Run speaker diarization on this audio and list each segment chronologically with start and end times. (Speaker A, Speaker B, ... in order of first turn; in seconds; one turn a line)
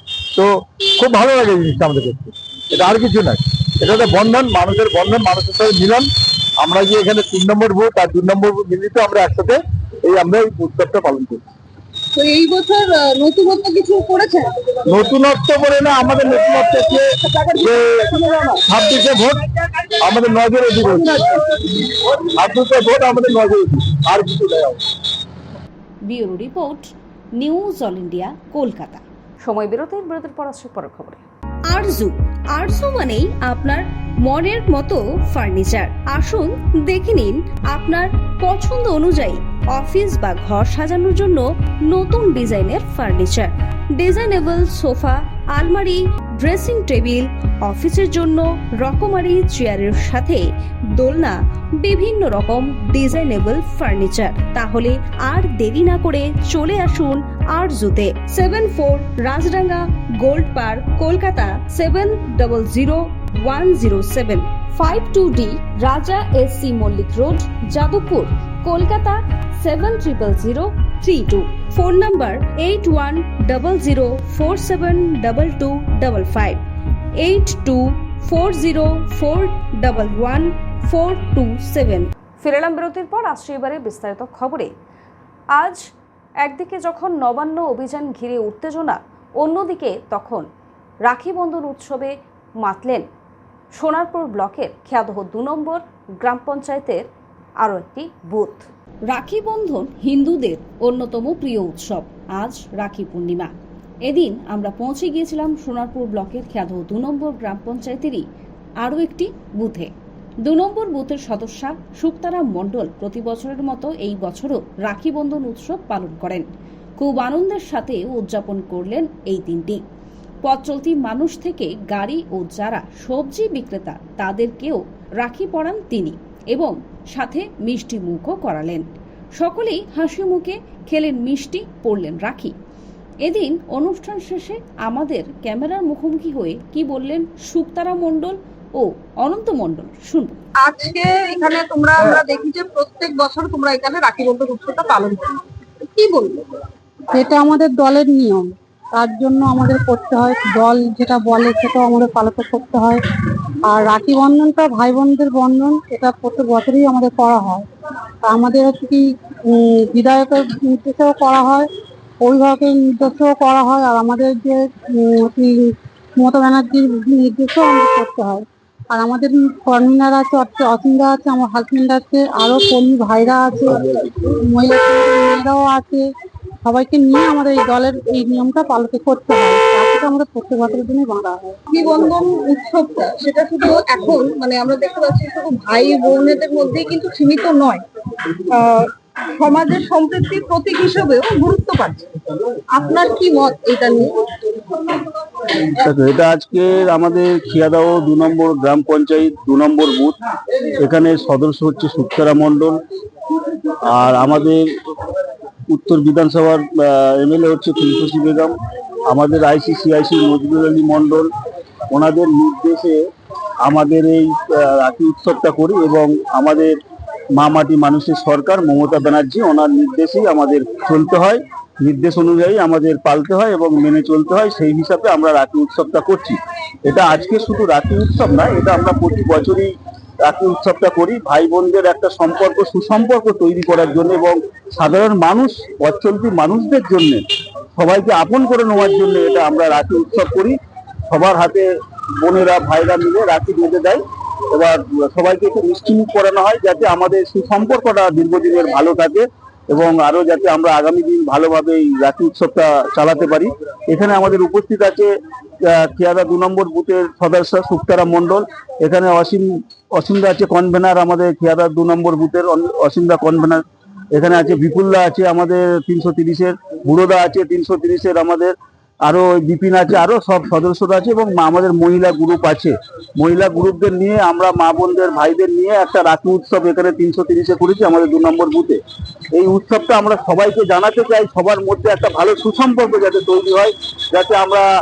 Speaker A: 0.3-6.1
Speaker A: 6.6-11.4
Speaker B: 12.2-14.5
Speaker A: 14.9-17.1
Speaker B: 16.8-18.6
Speaker A: 17.6-18.1
Speaker A: 18.7-19.4
Speaker A: 20.0-21.3
Speaker A: 22.1-24.8
Speaker C: 26.1-31.2
Speaker D: 29.5-31.2
Speaker C: 31.7-50.5
Speaker C: 51.0-76.6
Speaker C: 77.2-82.5
Speaker D: 82.4-84.7
Speaker C: 83.2-84.7
Speaker C: 86.5-90.5
Speaker C: 91.1-93.1
Speaker C: 93.8-97.1
Speaker C: 97.6-103.5
Speaker C: 104.1-108.2
Speaker C: 108.8-109.9
Speaker C: 110.4-119.8
Speaker C: 120.5-128.8
Speaker C: 129.4-132.6
Speaker C: 133.2-140.4
Speaker B: 140.6-145.4
Speaker B: 145.9-146.4
Speaker E: 147.1-153.0
Speaker E: 153.7-157.6
Speaker E: 158.2-159.0
Speaker E: 159.5-161.7
Speaker E: 162.2-176.1
Speaker E: 176.7-181.6
Speaker B: 181.7-187.8
Speaker B: 188.5-192.1
Speaker B: 192.7-194.2
Speaker F: 195.8-200.2
Speaker F: 200.8-202.8
Speaker F: 203.9-204.6
Speaker F: 205.7-208.5
Speaker F: 209.1-211.3
Speaker F: 211.9-213.0
Speaker F: 213.7-216.7
Speaker F: 217.4-229.7
Speaker F: 230.2-237.2
Speaker F: 237.8-240.6
Speaker F: 241.1-241.7
Speaker F: 242.2-244.0
Speaker F: 244.5-255.1
Speaker F: 255.6-278.8
Speaker F: 279.3-284.7